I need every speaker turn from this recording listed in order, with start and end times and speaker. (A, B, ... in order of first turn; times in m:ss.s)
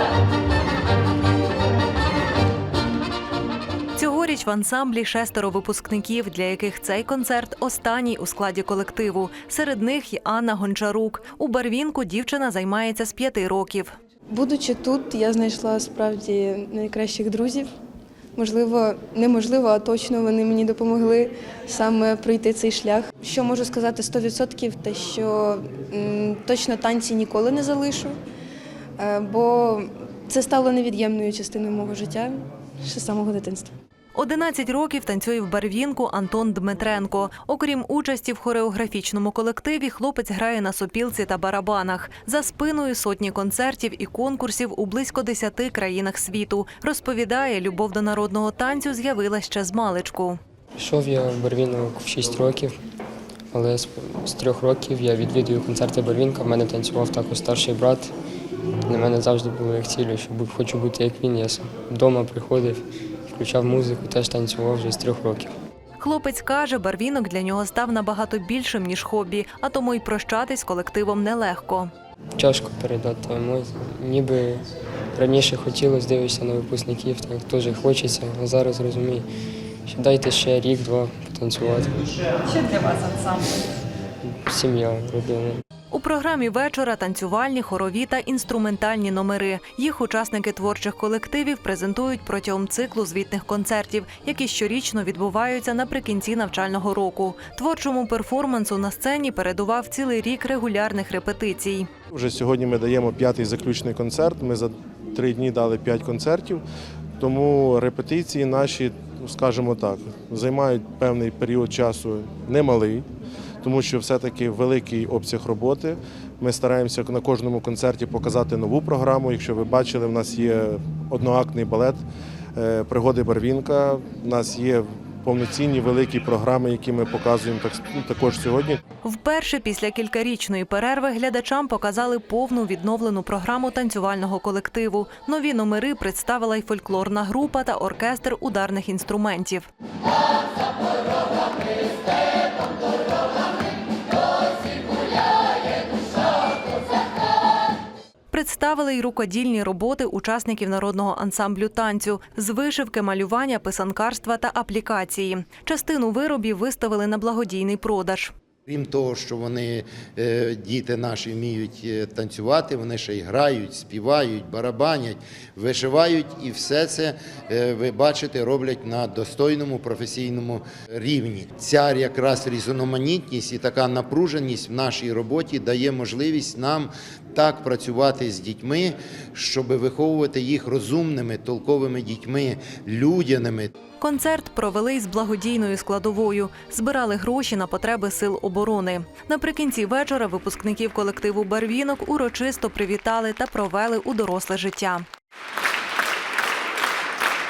0:04.0-0:13.9 A
0:14.3-0:17.7 B
0:18.4-0:28.1 B
0:29.0-0:33.7 B
0:34.1-0:50.4 A
0:50.8-0:52.8 C
0:53.5-0:58.1 C
0:58.8-1:05.5 C
1:06.0-1:11.9 A
1:12.4-1:19.3 C
1:19.9-1:22.7 C
1:24.2-1:25.6 C
1:25.9-1:41.9 A
1:42.1-1:46.6 D
1:47.2-1:53.0 D
1:53.6-2:02.0 D
2:02.5-2:08.8 D
2:09.0-2:19.7 A
2:28.3-2:38.3 A
2:38.7-3:03.7 E
3:04.0-3:15.0 A